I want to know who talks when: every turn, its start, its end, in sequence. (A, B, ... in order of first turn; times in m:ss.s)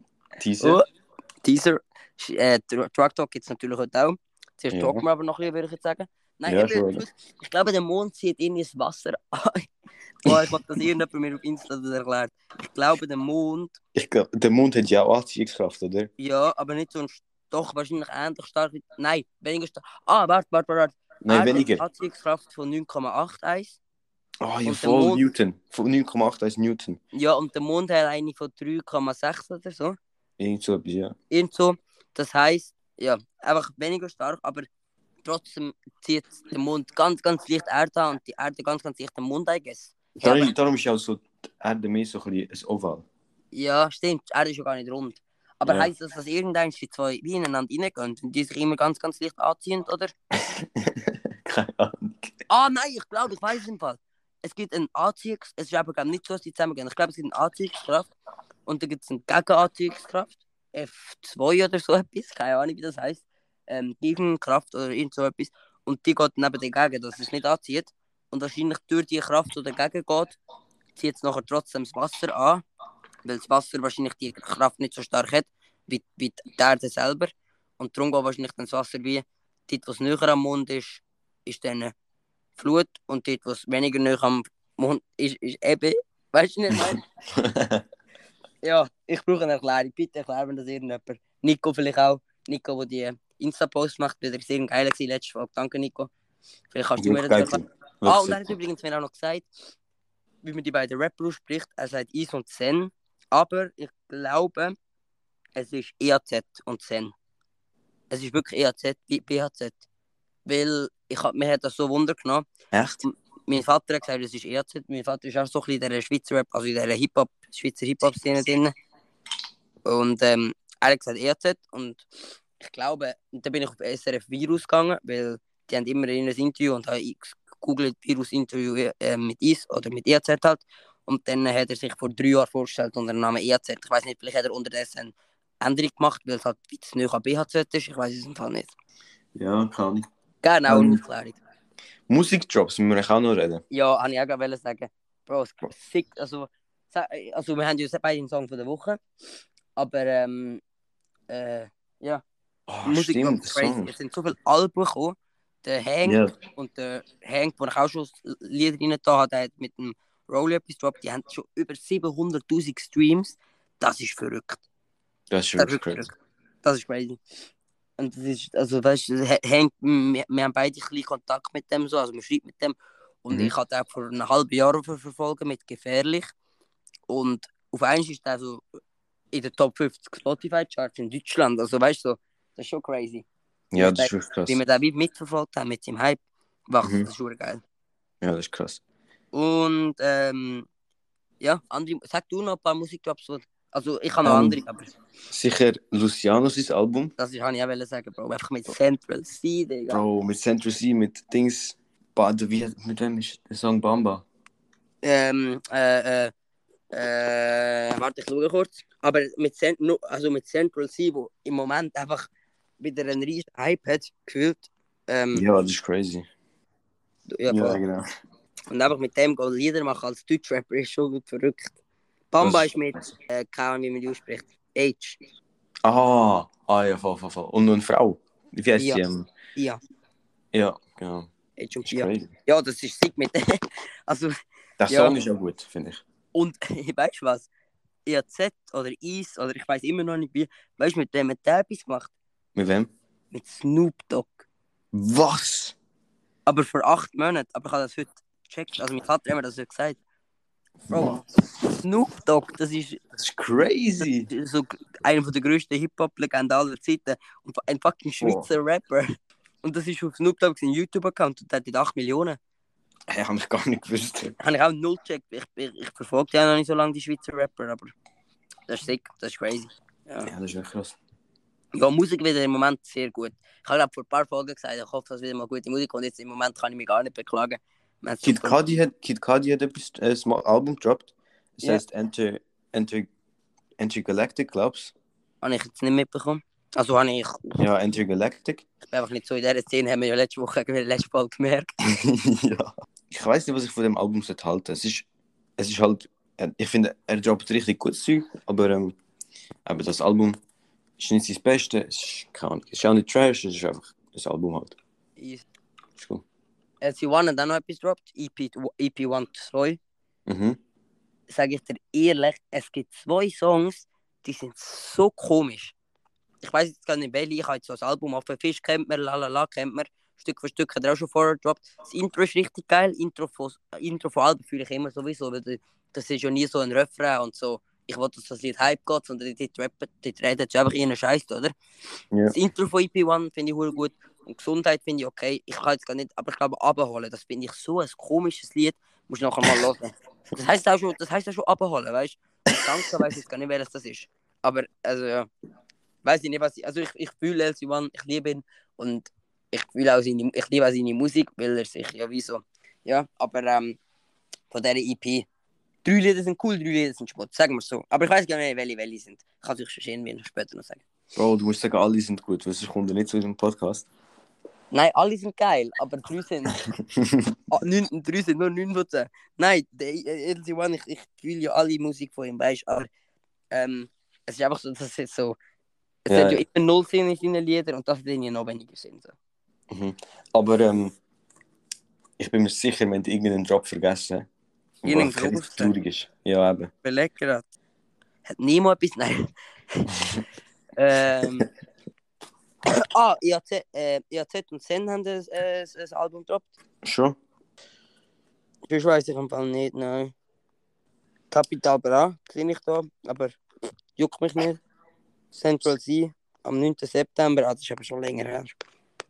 0:00.4-0:00.8 A
0:00.6-0:00.8 B
0:01.4-0:09.7 B
0:04.7-0:05.0 A
0:06.4-0:07.0 A
0:10.2-0:13.8 B
0:10.3-0:10.5 A
0:13.9-0:16.1 A
0:16.2-0:23.8 B
0:21.2-0:21.8 A
0:24.4-0:27.0 A
0:24.6-0:25.2 B
0:27.1-0:30.0 B
0:30.4-0:31.1 A
0:31.3-0:34.7 B
0:35.2-0:40.5 B
0:40.2-0:43.0 A
0:43.5-0:50.1 B
0:50.4-0:52.4 A
0:52.5-0:58.1 B
0:58.6-1:10.4 B
1:11.0-1:12.6 B
1:13.2-1:21.9 B
1:22.6-1:27.0 B
1:26.7-1:27.8 A
1:28.6-1:36.1 B
1:36.7-1:39.4 B
1:37.0-1:38.6 A
1:40.4-1:44.8 B
1:45.6-1:47.1 B
1:48.1-1:49.8 B
1:50.4-1:52.5 B
1:52.7-1:53.0 A
1:53.0-1:58.7 B
1:59.8-2:02.0 B
2:02.6-2:18.7 B
2:19.3-2:20.0 A
2:20.4-2:21.4 B
2:20.7-2:21.0 A
2:22.1-2:23.6 A
2:23.7-2:29.0 B
2:29.8-2:30.6 B
2:31.3-2:32.2 B
2:32.7-2:33.9 A
2:32.8-2:44.6 B
2:36.0-2:36.3 A
2:45.3-2:46.0 A
2:45.6-2:47.2 B
2:48.0-2:56.3 B
2:57.1-2:58.6 B
2:59.3-3:03.2 B
3:03.7-3:04.6 A
3:03.8-3:07.6 B
3:06.8-3:07.1 A
3:08.2-3:08.8 A
3:09.3-3:10.7 B
3:11.4-3:14.9 B
3:14.2-3:14.6 A
3:15.3-3:17.1 A
3:17.2-3:20.0 B
3:19.9-3:24.2 A
3:25.0-3:26.3 B
3:26.9-3:32.3 B
3:32.8-3:35.4 B
3:35.3-3:36.3 A
3:37.3-3:37.8 B
3:37.5-3:38.0 A
3:38.7-3:41.7 B
3:42.3-3:45.2 B
3:42.4-3:43.1 A
3:45.8-3:49.3 A
3:50.5-3:51.3 A
3:51.6-3:54.4 B
3:51.8-3:52.3 A
3:54.8-3:56.0 A
3:54.9-3:55.2 B
3:56.3-3:57.5 B
3:58.0-4:02.1 B
4:02.6-4:02.9 A
4:03.3-4:04.4 B
4:04.9-4:05.7 A
4:06.4-4:10.0 B
4:10.9-4:11.2 B
4:10.9-4:11.2 A
4:11.8-4:13.0 B
4:13.2-4:14.3 A
4:14.2-4:22.4 B
4:18.2-4:18.5 A
4:23.1-4:24.4 A
4:24.4-4:27.9 B
4:28.7-4:30.3 B
4:30.2-4:31.0 A
4:31.7-4:38.6 B
4:38.2-4:43.1 A
4:43.8-4:44.9 A
4:45.4-4:47.6 B
4:47.6-4:48.6 A
4:48.9-4:51.7 B
4:51.8-4:55.1 A
4:55.6-4:58.9 A
4:59.6-5:00.4 A
5:01.0-5:04.8 A
5:05.2-5:05.4 B
5:06.0-5:06.2 A
5:06.8-5:09.8 B
5:10.3-5:10.6 A
5:11.3-5:15.7 B
5:16.4-5:31.5 B
5:32.3-5:45.3 B
5:46.0-5:53.8 B
5:54.5-5:55.2 B
5:55.8-6:00.8 B
6:01.1-6:03.8 A
6:04.7-6:06.6 B
6:06.8-6:07.4 A
6:07.5-6:12.9 B
6:13.5-6:15.4 B
6:16.0-6:19.1 B
6:16.1-6:16.4 A
6:19.7-6:20.9 A
6:22.2-6:24.3 A
6:24.8-6:26.7 A
6:24.8-6:25.7 B
6:26.8-6:27.4 B
6:28.2-6:30.0 B
6:30.8-6:31.5 B
6:32.7-6:36.5 B
6:36.8-6:37.2 A
6:38.7-6:40.1 B
6:41.3-6:43.4 B
6:44.0-6:44.6 B
6:45.3-6:48.5 B